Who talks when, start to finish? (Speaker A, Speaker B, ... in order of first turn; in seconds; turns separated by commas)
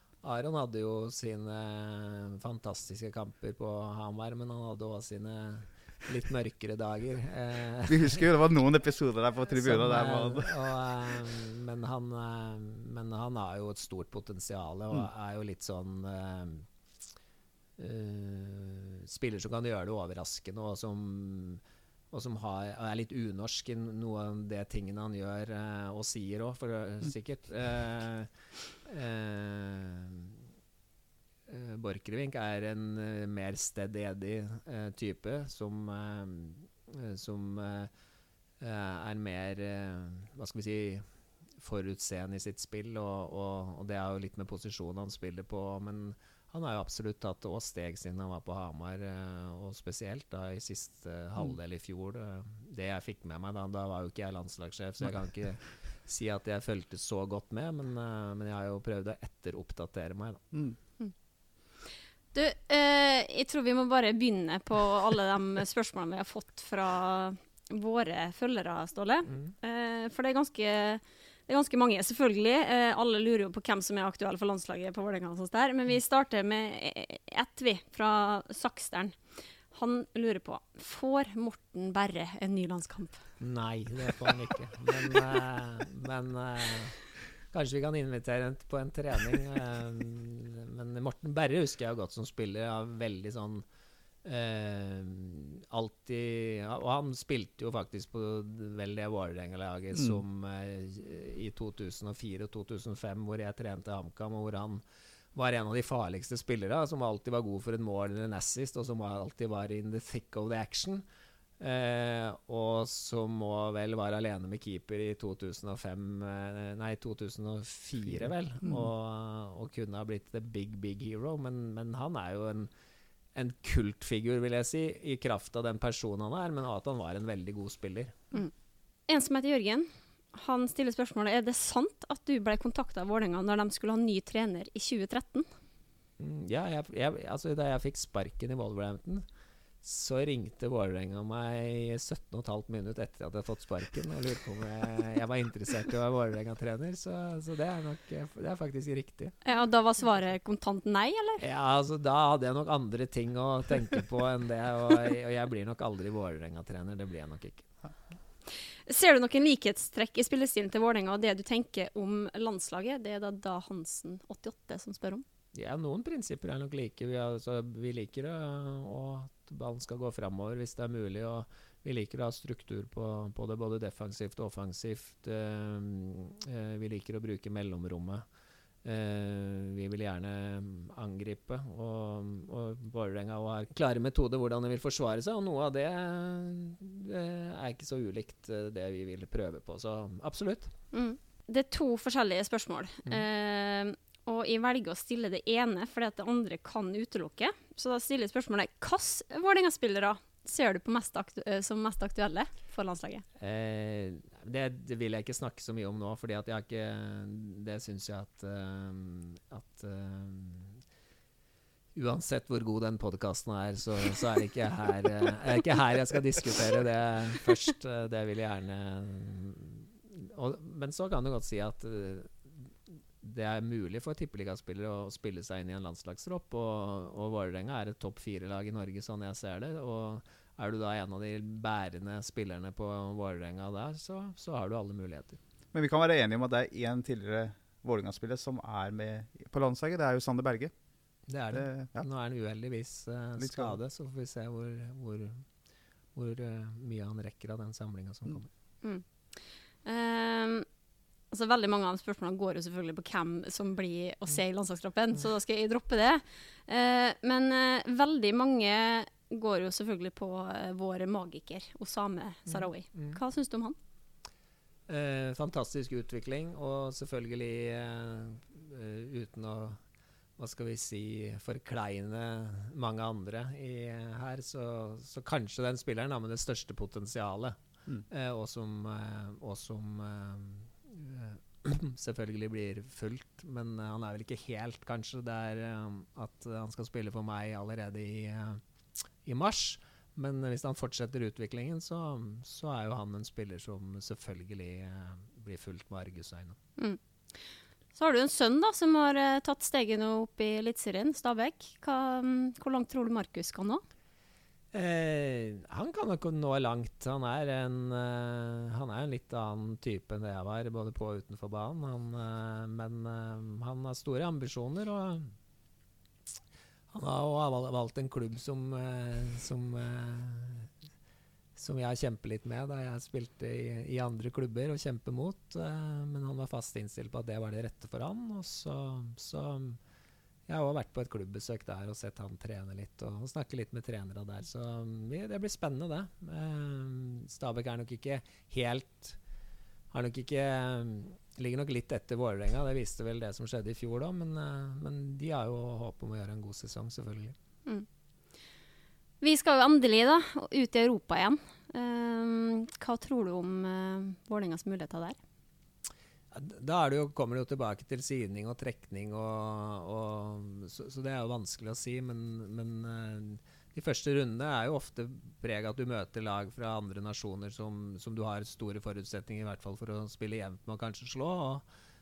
Speaker A: 0.2-8.2, Speaker B: 7.9-10.6, Speaker A: 9.6-16.7, Speaker A: 17.8-28.3, Speaker A: 28.9-30.4, Speaker A: 31.5-37.9, Speaker A: 38.6-41.1, Speaker A: 41.6-60.4, Speaker C: 62.3-79.2, Speaker C: 79.7-83.2, Speaker A: 83.4-87.0, Speaker A: 87.5-93.7, Speaker A: 94.2-104.8, Speaker A: 105.3-111.0, Speaker A: 111.6-122.7, Speaker A: 123.3-128.2, Speaker C: 129.1-135.5, Speaker A: 136.2-139.3, Speaker A: 139.8-149.3, Speaker C: 149.4-151.4, Speaker A: 151.4-157.7, Speaker C: 158.9-165.2, Speaker A: 165.5-178.2, Speaker A: 178.8-190.7, Speaker C: 190.9-203.2, Speaker A: 203.4-210.8, Speaker A: 211.9-235.4, Speaker B: 235.7-240.7, Speaker A: 241.3-245.4, Speaker B: 241.5-242.1, Speaker B: 243.4-243.8, Speaker A: 246.2-248.5, Speaker C: 249.8-250.7, Speaker C: 251.3-263.8, Speaker A: 262.5-263.2, Speaker A: 264.9-269.8, Speaker A: 270.4-288.6, Speaker A: 289.2-296.6, Speaker C: 297.9-303.8, Speaker A: 304.7-315.3, Speaker A: 316.9-320.7, Speaker A: 321.6-329.8, Speaker A: 330.5-339.2, Speaker A: 339.9-347.4, Speaker C: 349.2-355.2, Speaker A: 356.3-371.6